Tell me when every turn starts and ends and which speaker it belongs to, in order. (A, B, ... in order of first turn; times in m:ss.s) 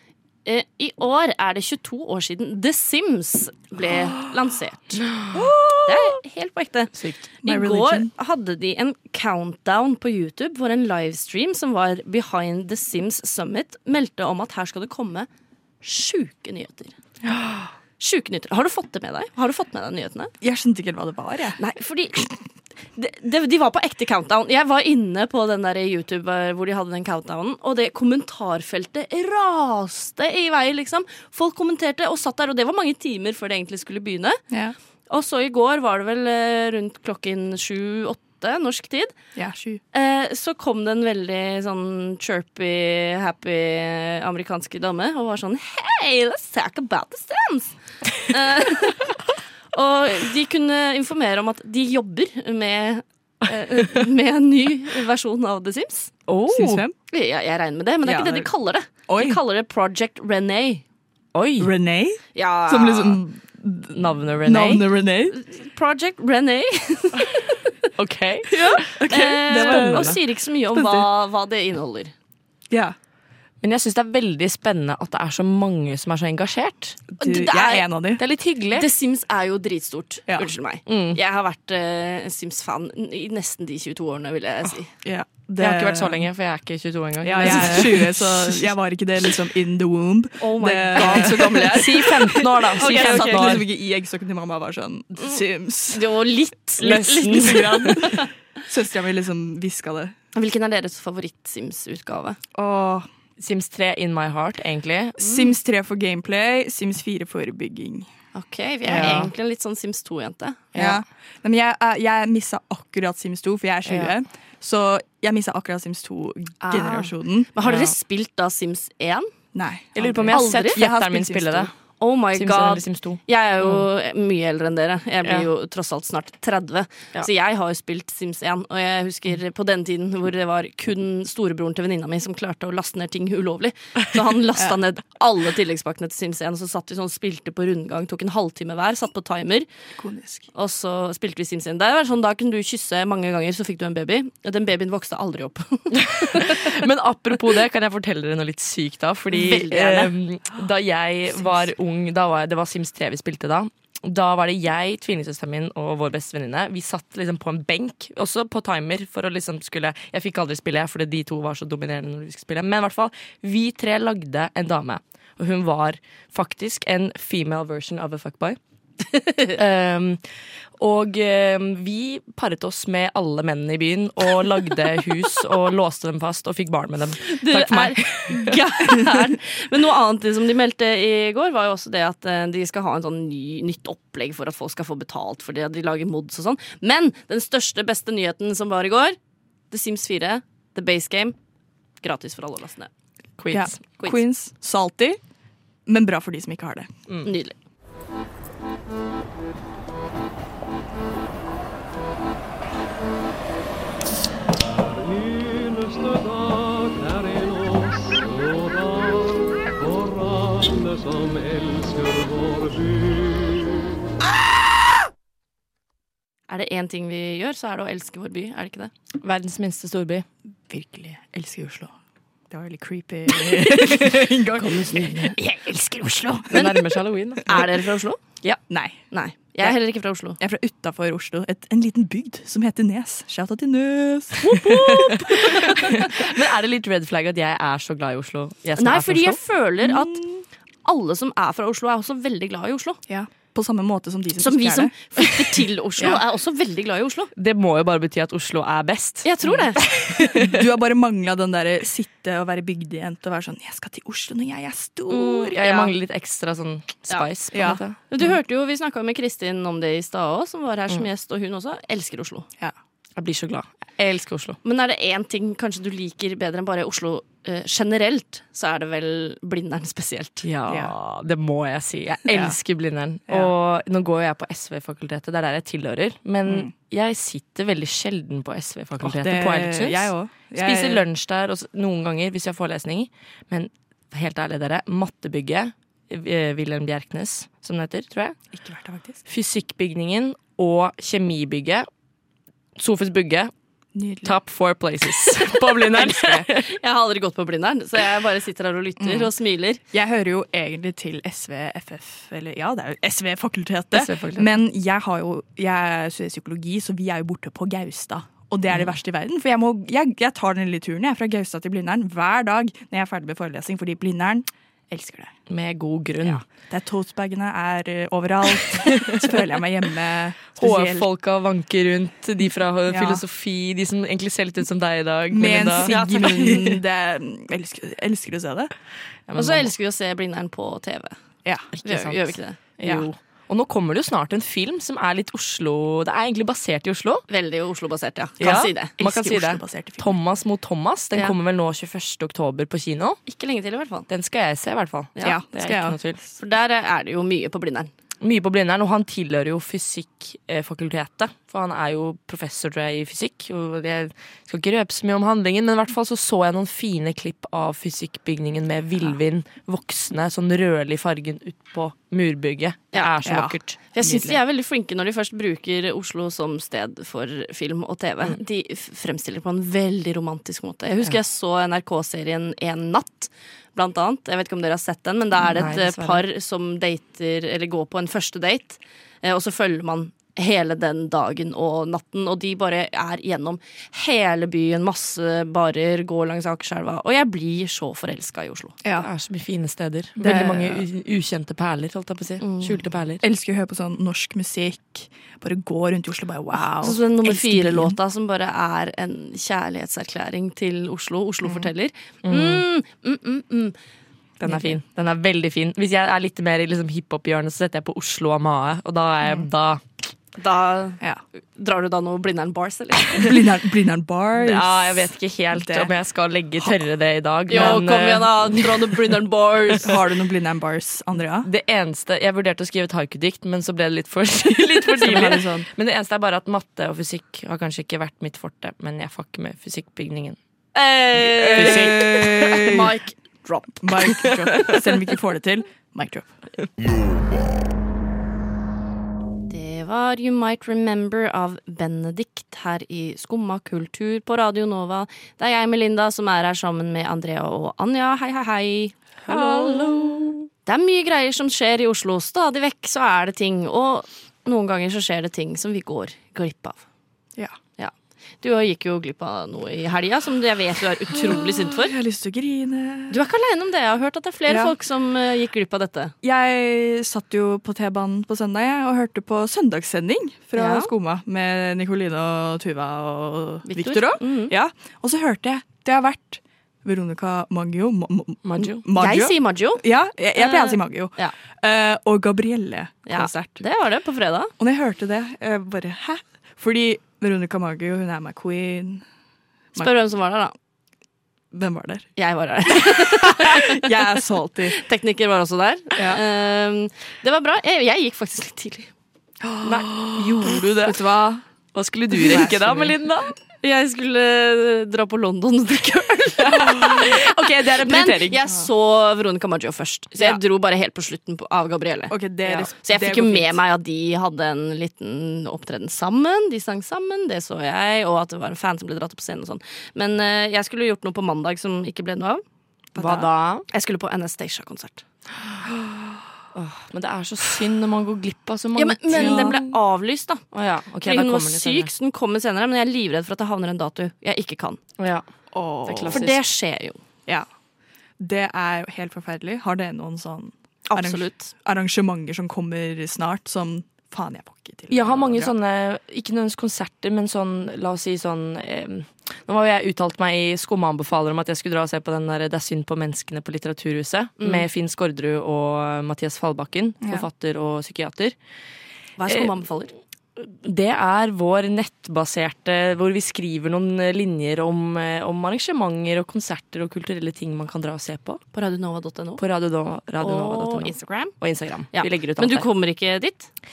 0:00.4-0:05.3 A
0:05.2-0:05.9 B
0:05.8-0:15.3 A
0:06.9-0:07.2 B
0:07.4-0:08.1 C
0:15.8-0:17.0 A
0:17.2-0:17.6 C
0:18.0-0:20.3 A
0:20.4-0:21.7 C
0:21.6-0:39.3 A
0:34.5-0:34.8 C
0:39.3-0:39.8 C
0:39.9-0:49.2 A
0:49.7-0:56.2 A
0:56.3-0:56.8 B
0:56.5-0:57.0 C
0:57.1-1:00.8 A
0:58.0-0:59.4 C
1:01.3-1:02.0 B
1:01.6-1:05.4 C
1:02.3-1:03.2 A
1:03.9-1:04.8 B
1:05.3-1:07.4 A
1:07.9-1:10.2 B
1:08.5-1:11.0 C
1:09.1-1:12.1 A
1:12.7-1:12.9 C
1:13.6-1:17.1 B
1:17.1-1:18.2 C
1:17.2-1:17.9 A
1:18.2-1:18.9 B
1:18.7-1:24.9 A
1:20.8-1:21.2 B
1:25.0-1:26.2 C
1:25.6-1:28.7 B
1:27.2-1:36.0 C
1:27.3-1:27.8 A
1:30.4-1:32.2 A
1:30.9-1:33.7 B
1:32.8-1:33.6 A
1:35.9-1:38.2 A
1:36.8-1:37.9 B
1:37.3-1:40.1 C
1:40.3-1:42.4 A
1:42.5-1:43.1 C
1:43.4-1:45.4 B
1:45.2-1:48.1 C
1:48.3-1:50.6 A
1:48.9-1:49.3 B
1:50.7-1:51.0 B
1:50.7-1:57.5 C
1:53.8-1:54.2 B
1:56.6-2:00.8 A
1:57.6-1:57.9 B
1:59.5-2:01.7 C
1:59.9-2:03.9 B
2:02.0-2:19.7 A
2:20.0-2:20.5 C
2:20.5-2:26.7 A
2:26.6-2:48.6 B
2:29.3-2:30.1 A
2:49.5-2:58.6 B
2:57.3-3:09.2 A
3:09.7-3:11.4 A
3:12.0-3:12.9 A
3:13.4-3:13.8 B
3:13.5-3:16.9 C
3:17.2-3:17.6 A
3:36.5-3:38.9 A
3:39.2-3:40.2 B
3:40.7-3:45.5 C
3:43.5-3:45.8 B
3:46.0-3:46.5 C
3:46.4-3:47.6 B
3:46.5-3:50.4 A
3:48.4-3:49.0 B
3:48.7-3:54.7 C
3:54.4-3:55.8 A
3:56.1-3:59.4 B
3:58.8-4:03.0 A
3:59.8-4:00.4 C
4:03.1-4:05.4 C
4:04.4-4:07.3 A
4:07.4-4:10.4 B
4:09.2-4:09.9 A
4:10.1-4:15.6 C
4:15.1-4:18.0 B
4:15.5-4:15.9 A
4:17.1-4:22.5 A
4:17.5-4:18.2 C
4:23.2-4:24.6 B
4:24.6-4:30.4 A
4:30.4-4:48.5 B
4:30.7-4:30.9 C
4:32.3-4:32.6 C
4:33.3-4:33.5 C
4:36.4-4:36.7 C
4:39.0-4:41.0 C
4:48.5-4:49.2 C
4:49.2-4:51.9 B
4:52.8-4:56.7 B
4:53.9-4:54.4 C
4:56.0-4:59.8 A
4:59.0-5:15.4 C
5:03.9-5:04.5 B
5:08.7-5:08.9 B
5:15.5-5:16.4 B
5:16.7-5:21.1 C
5:20.6-5:26.8 B
5:22.9-5:23.2 C
5:25.3-5:28.7 C
5:25.8-5:26.6 A
5:29.2-5:29.7 B
5:29.4-5:32.6 A
5:31.4-5:31.7 C
5:31.7-5:37.2 B
5:32.8-5:33.1 C
5:37.3-5:38.9 A
5:38.4-5:43.2 B
5:38.9-5:40.1 C
5:43.2-5:44.1 A
5:44.1-5:46.2 B
5:45.2-5:45.4 A
5:45.2-5:46.0 C
5:46.3-5:47.9 A
5:48.2-6:03.8 B
6:03.2-6:04.4 C
6:03.7-6:28.8 A
6:15.4-6:16.2 B
6:28.8-6:29.1 C
6:29.0-6:33.2 B
6:30.2-6:30.8 C
6:32.4-6:32.8 A
6:33.2-6:37.9 C
6:36.5-6:43.8 A
6:42.2-6:42.6 B
6:44.4-6:49.8 B
6:50.4-6:51.0 A
6:51.6-6:53.2 A
6:53.1-6:55.9 C
6:54.3-6:58.7 B
6:57.5-6:59.9 A
6:57.5-6:57.8 C
6:59.8-7:01.5 C
7:01.4-7:10.4 B
7:05.0-7:05.7 C
7:10.7-7:14.6 A
7:11.4-7:12.9 C
7:11.6-7:12.4 B
7:13.8-7:16.5 C
7:19.5-7:29.8 A
7:29.2-7:30.1 C
7:29.3-7:30.4 B
7:30.6-7:36.8 A
7:37.8-7:41.9 A
7:41.2-7:43.2 C
7:43.1-7:46.1 A
7:44.5-7:44.7 C
7:46.2-8:03.7 C
7:50.5-7:50.9 A
7:53.6-7:54.5 A
7:58.4-7:58.8 B
7:58.9-8:01.3 A
8:03.0-8:04.5 A
8:04.6-8:09.1 C
8:09.8-8:10.5 A
8:11.5-8:14.8 C
8:12.2-8:13.6 A
8:14.8-8:18.9 A
8:16.0-8:16.2 C
8:19.4-8:22.9 C
8:19.6-8:23.3 B
8:23.6-8:42.4 A
8:26.4-8:28.4 B
8:32.1-8:33.6 C
8:43.0-8:43.6 B
8:43.0-8:45.0 A
8:46.5-8:49.6 B
8:48.8-8:54.8 A
8:49.2-8:49.5 C
8:50.4-8:51.9 B
8:55.0-8:56.4 B
8:55.5-8:56.5 C
8:56.1-8:57.0 A
8:57.2-9:05.5 C
9:00.9-9:01.5 A
9:04.9-9:18.4 B
9:14.4-9:14.6 A
9:17.0-9:17.2 C
9:19.2-9:19.9 A
9:19.2-9:19.6 B
9:20.4-9:28.4 B
9:28.5-9:29.4 A
9:29.4-9:32.7 B
9:30.2-9:31.3 A
9:31.9-9:33.5 A